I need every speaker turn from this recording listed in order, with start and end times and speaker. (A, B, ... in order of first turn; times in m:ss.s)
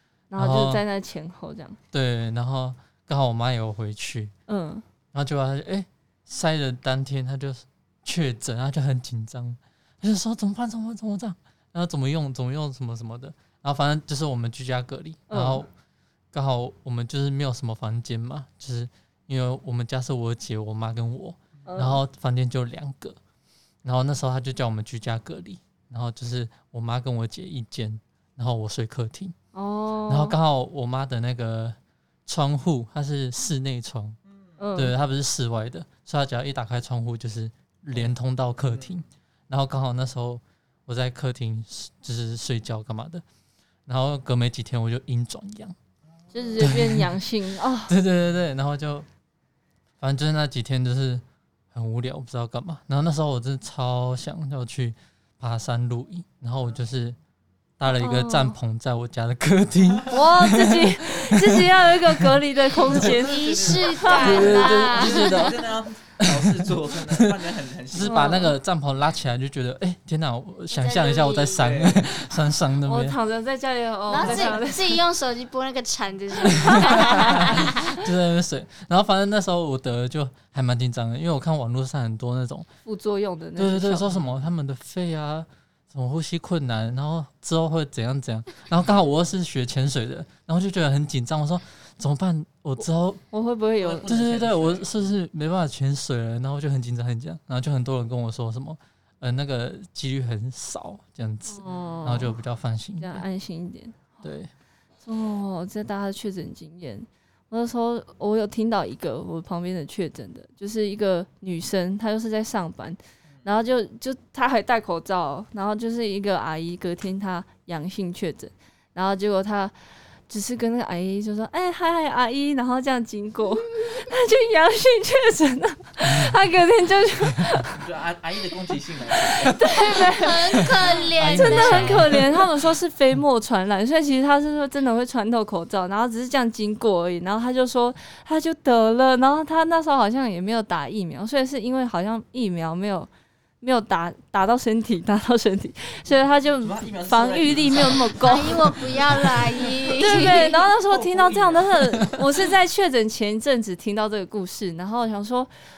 0:00.3-0:01.8 A
0:00.4-0:00.8 B
0:01.9-0:04.3 B
0:04.5-0:04.8 A
0:05.1-0:15.7 B
0:15.3-0:15.7 A
0:16.3-0:23.2 B
0:21.7-0:22.0 A
0:23.8-0:29.3 B
0:29.5-0:30.4 A
0:30.1-0:34.2 B
0:34.2-0:34.7 C
0:34.6-0:35.0 A
0:34.8-0:43.2 B
0:38.6-0:39.0 C
0:43.9-0:45.8 B
0:46.0-0:46.8 C
0:46.3-0:47.9 A
0:46.6-0:47.2 B
0:47.9-0:49.1 B
0:50.0-0:57.2 B
0:57.8-1:02.4 B
0:57.9-0:58.6 A
1:00.1-1:04.5 A
1:02.8-1:08.5 C
1:03.1-1:05.6 D
1:04.2-1:07.3 B
1:07.9-1:13.2 B
1:08.0-1:08.5 A
1:10.7-1:11.7 D
1:11.6-1:12.3 C
1:12.8-1:15.0 A
1:14.1-1:18.0 D
1:14.2-1:14.5 B
1:16.6-1:22.7 B
1:16.8-1:17.4 A
1:22.8-1:24.1 A
1:23.6-1:33.2 B
1:33.3-1:34.1 A
1:33.8-1:35.1 C
1:34.1-1:43.2 B
1:41.5-1:42.4 A
1:41.6-1:42.2 C
1:43.0-1:44.2 A
1:44.2-1:44.5 B
1:45.0-1:59.7 A
1:53.2-1:53.7 C
2:00.3-2:07.8 A
2:06.0-2:06.3 B
2:07.8-2:10.0 C
2:09.3-2:23.1 A
2:09.6-2:12.4 D
2:11.2-2:12.4 B
2:23.6-2:28.8 A
2:26.1-2:32.5 C
2:28.2-2:30.7 D
2:30.0-2:35.5 A